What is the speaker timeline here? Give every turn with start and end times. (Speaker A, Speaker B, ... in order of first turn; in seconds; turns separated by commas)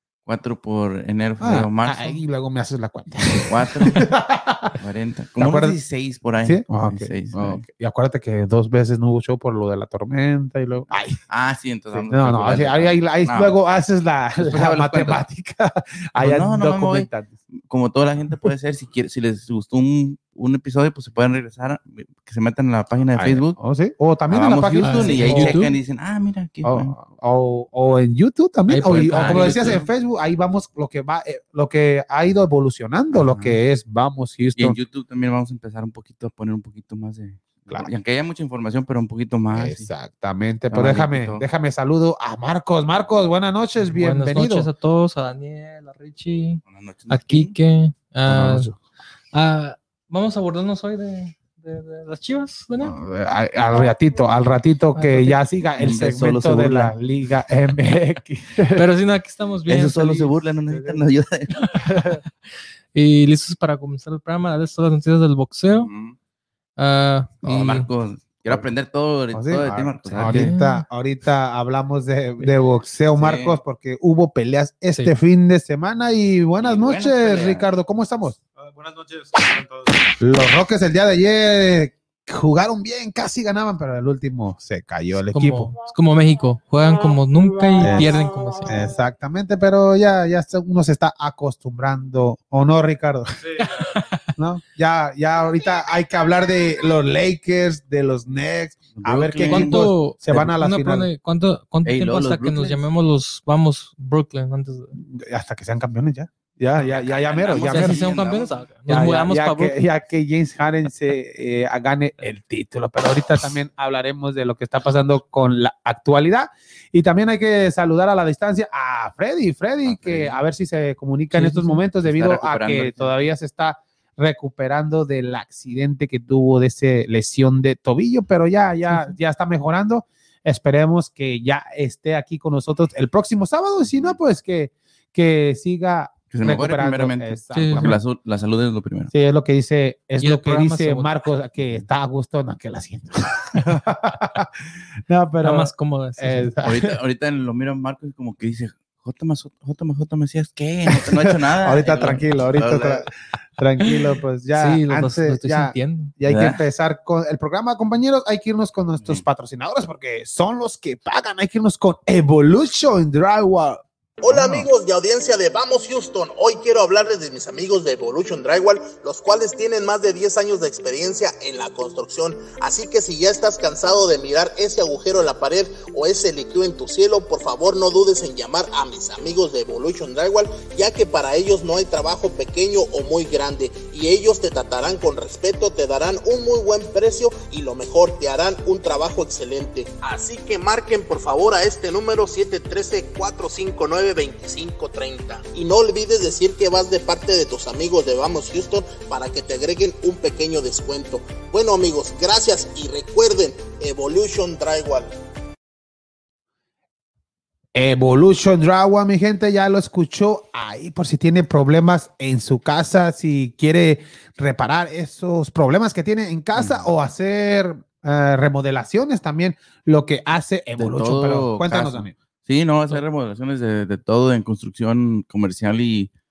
Speaker A: 0.2-2.2, Speaker B: 1.4-4.8, Speaker A: 3.4-4.1, Speaker A: 4.8-7.6, Speaker B: 5.4-5.8, Speaker B: 6.4-11.2, Speaker A: 11.3-13.5, Speaker B: 11.9-17.3, Speaker A: 14.4-15.2, Speaker A: 16.2-23.6, Speaker B: 23.1-25.6, Speaker A: 24.3-26.9, Speaker C: 24.8-25.7, Speaker B: 26.6-34.8, Speaker C: 28.7-29.8, Speaker A: 28.9-29.9, Speaker A: 33.1-33.6, Speaker A: 34.5-39.9, Speaker B: 39.5-44.7, Speaker A: 40.7-41.5, Speaker C: 43.8-48.7, Speaker A: 46.7-47.5, Speaker B: 48.3-48.7, Speaker C: 49.3-52.9, Speaker B: 52.8-58.8, Speaker C: 54.9-55.4, Speaker A: 55.8-56.9, Speaker C: 58.7-60.3, Speaker A: 59.7-61.9, Speaker B: 60.7-61.0, Speaker C: 61.6-62.2, Speaker B: 61.9-62.2, Speaker C: 62.9-65.9, Speaker A: 65.7-66.1, Speaker C: 66.8-67.9, Speaker A: 67.4-70.5, Speaker B: 69.3-78.4, Speaker C: 70.2-70.8, Speaker A: 73.2-73.6, Speaker A: 76.6-77.7, Speaker D: 78.6-80.1, Speaker B: 80.2-85.7, Speaker C: 85.3-88.8, Speaker B: 87.8-88.1, Speaker B: 88.7-93.3, Speaker D: 93.4-94.0, Speaker C: 93.6-94.3, Speaker B: 94.3-101.1, Speaker A: 98.9-100.5, Speaker C: 99.5-105.0, Speaker A: 101.8-102.8, Speaker B: 105.0-108.1, Speaker A: 106.8-108.5, Speaker C: 107.6-109.8, Speaker B: 108.9-138.0, Speaker A: 119.8-120.4, Speaker C: 121.3-121.8, Speaker A: 122.0-123.2, Speaker C: 128.8-129.1, Speaker A: 136.3-139.1, Speaker C: 137.5-138.0, Speaker B: 139.1-144.5, Speaker C: 140.2-141.2, Speaker B: 145.1-146.9, Speaker C: 145.4-146.5, Speaker A: 146.6-153.1, Speaker B: 150.9-163.8, Speaker C: 154.5-156.1, Speaker A: 156.3-156.6, Speaker E: 164.2-205.1, Speaker A: 164.3-164.7, Speaker B: 207.7-222.1, Speaker A: 216.5-216.9, Speaker A: 220.8-226.1